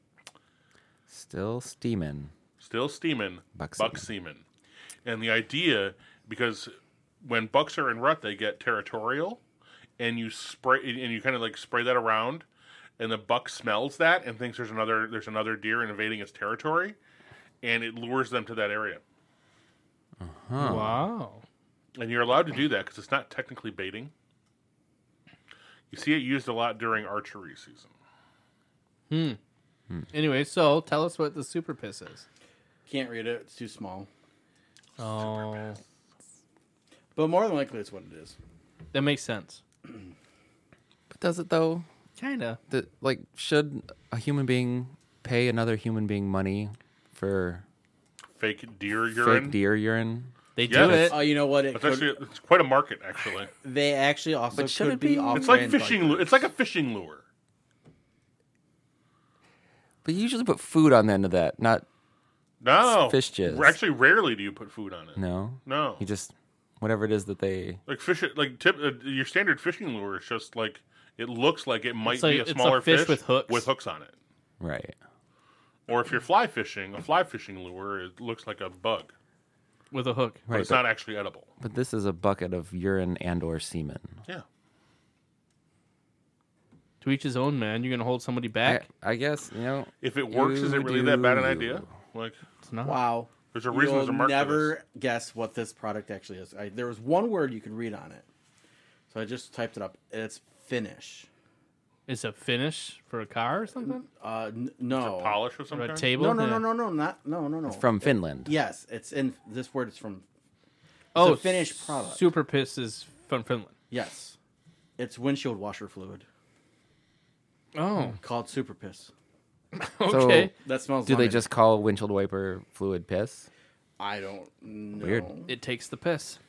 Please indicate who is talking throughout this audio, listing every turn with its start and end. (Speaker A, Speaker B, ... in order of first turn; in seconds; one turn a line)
Speaker A: 1.1-2.3
Speaker B: 2.6-4.4
Speaker A: 3.5-4.1
Speaker B: 5.0-9.4
Speaker B: 10.0-12.5
Speaker B: 13.0-17.0
Speaker B: 17.6-19.0
Speaker A: 20.2-21.1
Speaker C: 20.6-21.4
Speaker B: 22.0-24.1
Speaker B: 25.9-27.9
Speaker C: 29.1-29.4
Speaker C: 30.1-32.3
Speaker D: 32.9-34.1
Speaker C: 35.0-35.8
Speaker D: 37.2-38.4
Speaker C: 38.9-39.6
Speaker A: 41.1-41.9
Speaker C: 42.2-42.6
Speaker A: 42.7-47.6
Speaker B: 48.4-49.6
Speaker A: 49.2-51.2
Speaker C: 50.6-51.2
Speaker B: 50.7-53.5
Speaker D: 51.0-52.1
Speaker D: 53.6-56.5
Speaker A: 54.5-55.6
Speaker B: 55.3-57.2
Speaker A: 60.0-61.9
Speaker B: 62.6-66.1
Speaker A: 62.8-63.8
Speaker A: 65.2-67.8
Speaker B: 67.9-74.1
Speaker C: 72.0-73.7
Speaker A: 74.6-75.0
Speaker B: 75.9-79.1
Speaker C: 79.9-80.4
Speaker A: 80.5-80.8
Speaker B: 80.5-81.5
Speaker A: 81.6-84.2
Speaker C: 87.0-88.8
Speaker A: 88.6-91.9
Speaker B: 90.0-92.4
Speaker C: 92.6-93.0
Speaker D: 92.8-98.3
Speaker B: 93.5-94.8
Speaker D: 99.1-101.3
Speaker C: 102.1-104.0
Speaker D: 104.1-105.4
Speaker B: 105.0-106.1
Speaker C: 105.7-106.7
Speaker D: 106.1-110.2
Speaker A: 107.7-108.5
Speaker D: 111.1-112.3
Speaker C: 111.2-113.8
Speaker D: 113.9-114.4
Speaker D: 115.0-116.2
Speaker C: 117.7-118.2
Speaker D: 118.2-119.1
Speaker C: 119.8-120.5
Speaker A: 120.1-120.5
Speaker D: 120.6-121.5
Speaker A: 121.1-123.5
Speaker D: 124.0-125.5
Speaker A: 125.0-125.3
Speaker C: 125.5-126.4